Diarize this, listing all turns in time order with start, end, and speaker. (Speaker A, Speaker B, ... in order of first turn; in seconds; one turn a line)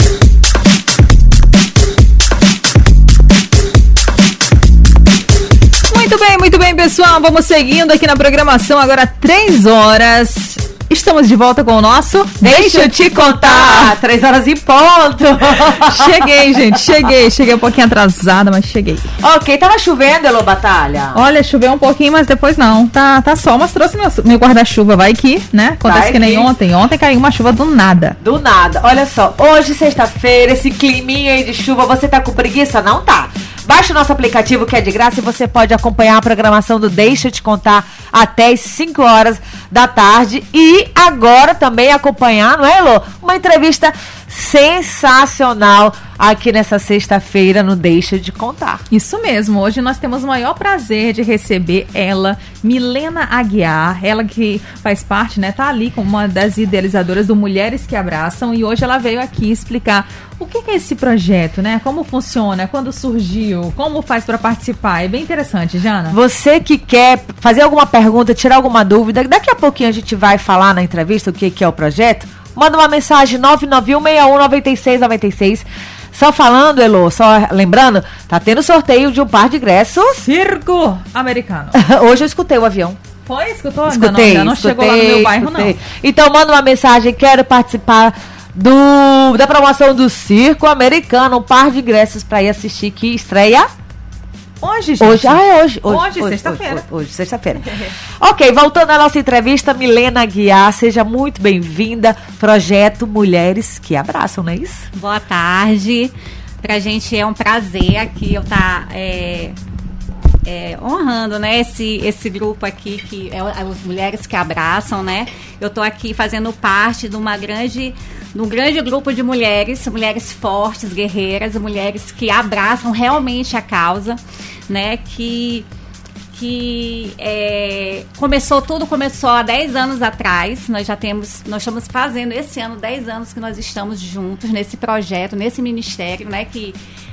Speaker A: 5.9-13.9
Speaker B: 12.4-16.8
Speaker A: 15.7-19.1
Speaker B: 19.2-21.2
Speaker A: 21.1-28.2
Speaker B: 25.8-26.5
Speaker B: 28.2-48.8
Speaker A: 48.9-66.2
Speaker B: 66.1-80.2
Speaker A: 80.2-81.8
Speaker B: 81.7-83.0
Speaker A: 83.2-85.7
Speaker B: 83.9-93.7
Speaker A: 94.6-96.8
Speaker B: 95.0-104.9
Speaker C: 104.9-109.5
Speaker C: 110.4-125.7
Speaker C: 126.3-136.8